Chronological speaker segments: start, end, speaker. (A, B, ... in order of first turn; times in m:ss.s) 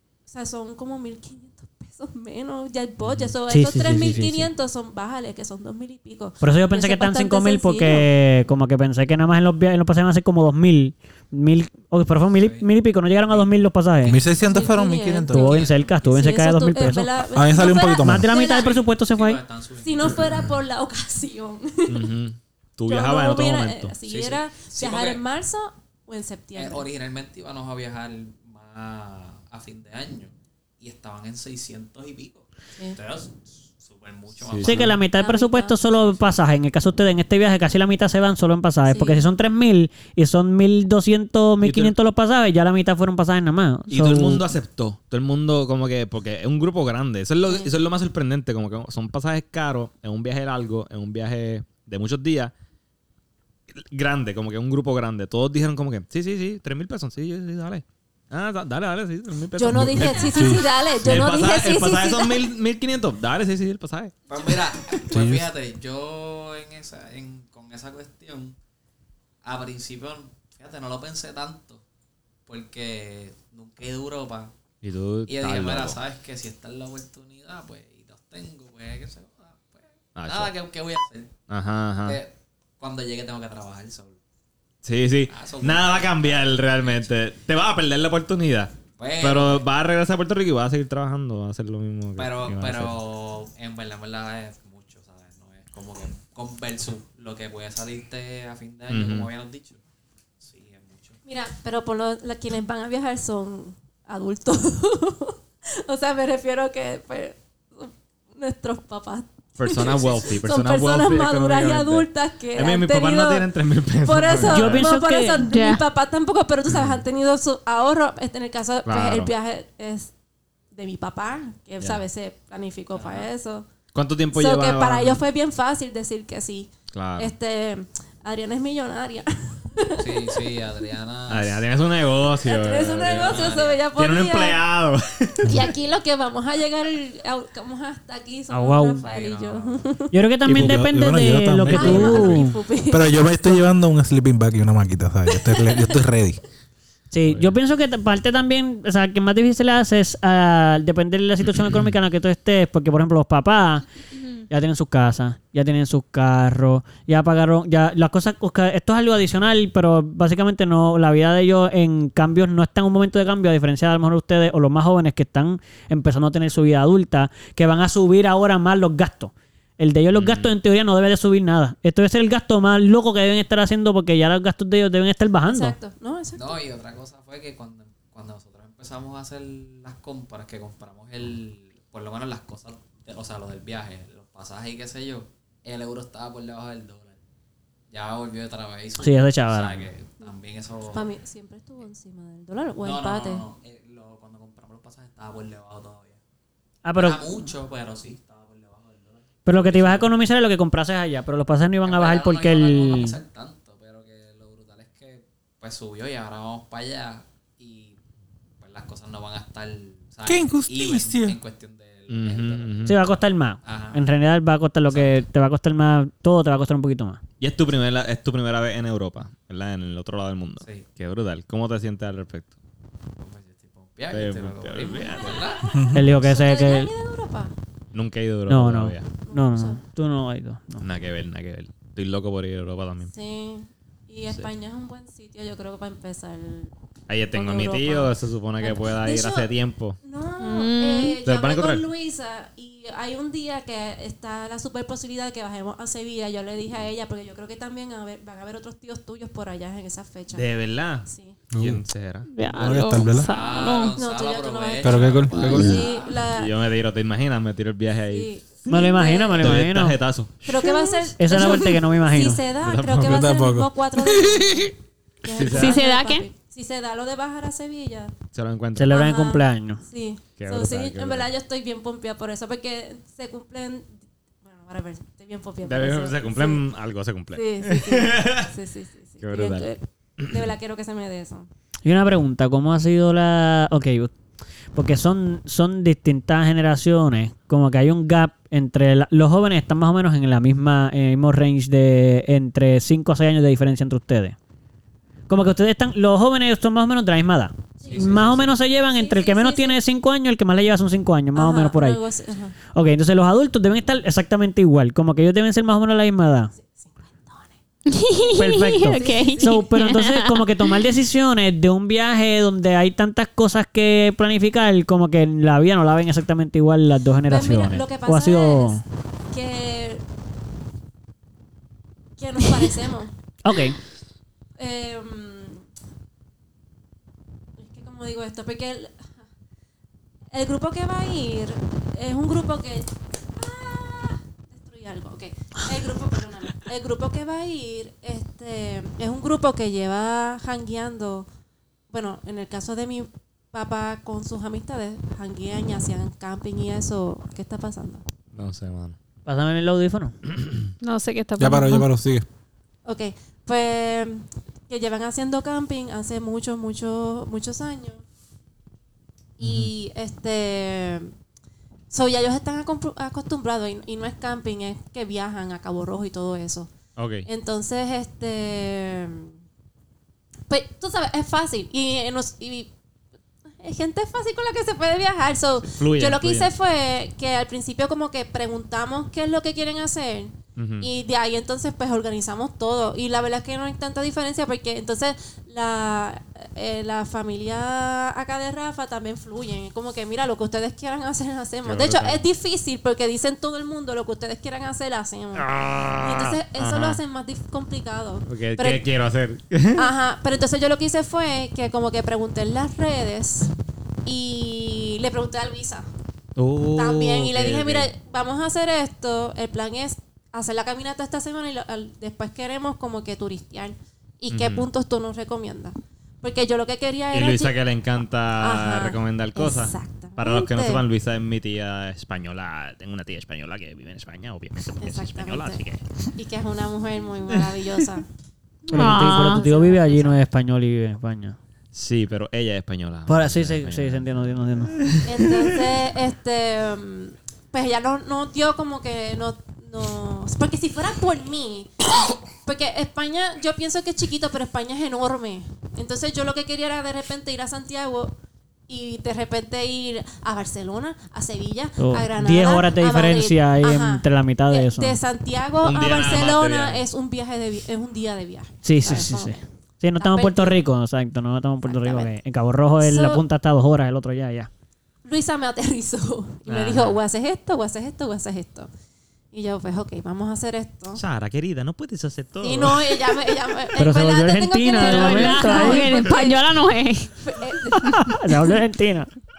0:00.3-0:08.1 A
0:03.0-0:03.3 B
0:03.5-0:04.5 C
0:06.4-0:14.2 C
0:12.3-0:12.7 D
0:14.0-0:15.6 E
0:14.3-0:18.8 A
0:15.3-0:17.1 C
0:15.4-0:16.1 D
0:17.3-0:18.3 E
0:18.0-0:19.4 C
0:18.4-0:20.3 D
0:19.8-0:22.1 A
0:21.9-0:23.9 B
0:22.9-0:26.9 A
0:24.0-0:25.2 D
0:26.6-0:35.0 D
0:34.4-0:34.9 B
0:34.6-0:44.5 C
0:35.2-0:35.8 A
0:36.0-0:36.3 D
0:38.9-0:39.3 A
0:41.6-0:41.9 B
0:43.9-0:52.5 B
0:47.4-0:47.7 A
0:53.8-1:04.1 B
0:59.6-1:02.5 A
0:59.7-1:01.2 E
1:04.3-1:08.6 D
1:05.1-1:05.5 E
1:09.4-1:11.8 D
1:12.4-1:14.6 D
1:14.8-1:16.0 B
1:15.3-1:21.4 D
1:20.2-1:20.5 B
1:21.5-1:22.2 B
1:22.0-1:24.2 D
1:24.8-1:33.0 B
1:25.3-1:27.1 D
1:29.0-1:29.7 D
1:32.2-1:39.8 D
1:38.9-1:39.3 B
1:40.4-1:41.2 D
1:41.2-2:00.1 A
1:49.6-1:55.0 B
1:49.7-1:50.4 D
1:54.3-1:55.4 C
1:55.4-1:55.8 F
1:56.7-1:57.0 B
1:58.8-1:59.3 B
2:00.7-2:03.7 A
2:02.9-2:03.3 D
2:03.9-2:05.2 B
2:04.3-2:10.5 A
2:06.9-2:07.3 B
2:10.0-2:12.1 D
2:11.3-2:15.6 B
2:12.4-2:14.6 A
2:13.0-2:13.9 D
2:15.4-2:20.1 A
2:18.5-2:19.0 C
2:19.0-2:19.8 D
2:20.1-2:22.6 C
2:20.4-2:26.4 E
2:21.7-2:23.6 A
2:25.3-2:26.0 A
2:27.1-2:33.8 C
2:27.2-2:27.5 B
2:31.5-2:31.9 B
2:34.5-2:55.8 C
2:50.1-2:50.6 B
2:55.4-2:56.6 A
2:56.4-3:07.2 D
3:07.9-3:11.1 D
3:09.0-3:09.9 C
3:10.9-3:13.4 A
3:12.8-3:16.2 D
3:16.8-3:17.2 C
3:17.0-3:20.1 D
3:19.4-3:23.2 C
3:21.8-3:28.0 D
3:28.6-3:33.1 D
3:30.3-3:31.4 E
3:32.1-3:33.0 B
3:32.9-3:37.2 C
3:33.6-3:34.1 D
3:34.9-3:35.2 D
3:37.4-3:42.5 B
3:40.6-3:40.9 D
3:43.2-3:45.8 D
3:44.1-3:45.6 B
3:45.7-3:46.0 E
3:45.9-3:46.9 C
3:46.2-3:47.5 A
3:47.9-3:49.1 B
3:48.5-3:50.9 C
3:49.2-3:49.8 A
3:50.8-3:53.1 B
3:53.1-3:56.7 A
3:57.1-4:00.0 B
3:57.3-4:10.4 A
4:00.4-4:01.2 F
4:01.2-4:01.8 B
4:10.3-4:13.2 B
4:11.0-4:11.4 A
4:11.5-4:11.8 E
4:12.3-4:13.9 F
4:12.5-4:13.3 E
4:13.3-4:16.3 D
4:13.9-4:16.6 A
4:14.8-4:15.8 E
4:16.3-4:18.7 B
4:18.1-4:19.6 A
4:18.7-4:20.0 C
4:19.4-4:20.3 B
4:20.4-4:28.1 A
4:20.6-4:21.4 F
4:21.2-4:22.4 C
4:22.6-4:23.3 B
4:22.9-4:24.6 E
4:25.3-4:25.8 B
4:25.5-4:26.3 F
4:28.3-4:29.0 B
4:28.8-4:29.8 C
4:28.9-4:33.9 A
4:30.4-4:31.3 B
4:34.4-4:36.6 A
4:35.6-4:38.5 B
4:37.3-4:41.5 A
4:39.2-4:39.7 B
4:41.8-4:44.1 C
4:44.7-4:54.4 C
4:55.3-5:02.0 C
4:57.8-4:58.2 A
4:57.9-4:58.5 D
4:58.9-4:59.8 A
5:01.3-5:02.6 A
5:02.7-5:06.5 C
5:06.6-5:07.5 A
5:07.9-5:10.5 F
5:08.3-5:18.8 C
5:08.9-5:09.6 A
5:17.3-5:20.0 A
5:22.2-5:23.1 A
5:23.4-5:23.8 C
5:24.6-5:25.6 A
5:27.6-5:29.0 A
5:30.3-5:41.3 A
5:41.9-5:48.0 A
5:48.3-5:49.0 B
5:49.3-5:50.2 C
5:50.4-5:50.7 B
5:50.8-5:51.9 F
5:51.4-5:52.3 E
5:52.8-5:58.0 A
5:59.4-6:01.1 A
5:59.4-5:59.7 B
6:01.9-6:06.7 A
6:07.0-6:07.3 B
6:07.3-6:09.3 A
6:10.5-6:12.7 A
6:13.6-6:35.5 A
6:15.7-6:16.5 B
6:20.6-6:20.9 B
6:31.6-6:32.2 B
6:35.3-6:37.0 B
6:36.0-6:38.9 A
6:38.3-6:39.9 B
6:39.8-6:43.5 A
6:44.0-6:45.9 A
6:46.4-6:47.9 B
6:46.7-6:57.6 A
6:54.3-6:54.7 B
6:57.1-7:06.1 B
6:58.4-7:00.8 A
7:04.8-7:05.6 A
7:06.2-7:08.1 A
7:07.3-7:07.8 B
7:08.7-7:09.4 F
7:08.7-7:11.4 C
7:08.7-7:10.2 A
7:11.7-7:15.7 B
7:13.1-7:14.7 C
7:15.0-7:21.7 A
7:22.4-7:28.1 A
7:28.7-7:39.4 A
7:31.8-7:35.0 C
7:35.6-7:36.8 B
7:38.6-7:44.5 C
7:40.0-7:40.6 A
7:41.7-7:42.1 A
7:42.8-7:43.2 A
7:45.0-7:48.7 A
7:46.5-7:47.0 B
7:49.3-7:51.0 A
7:50.9-7:53.2 B
7:52.4-7:56.6 A
7:53.8-7:56.0 C
7:54.7-7:57.1 F
7:57.2-7:58.1 A
7:57.7-7:59.1 C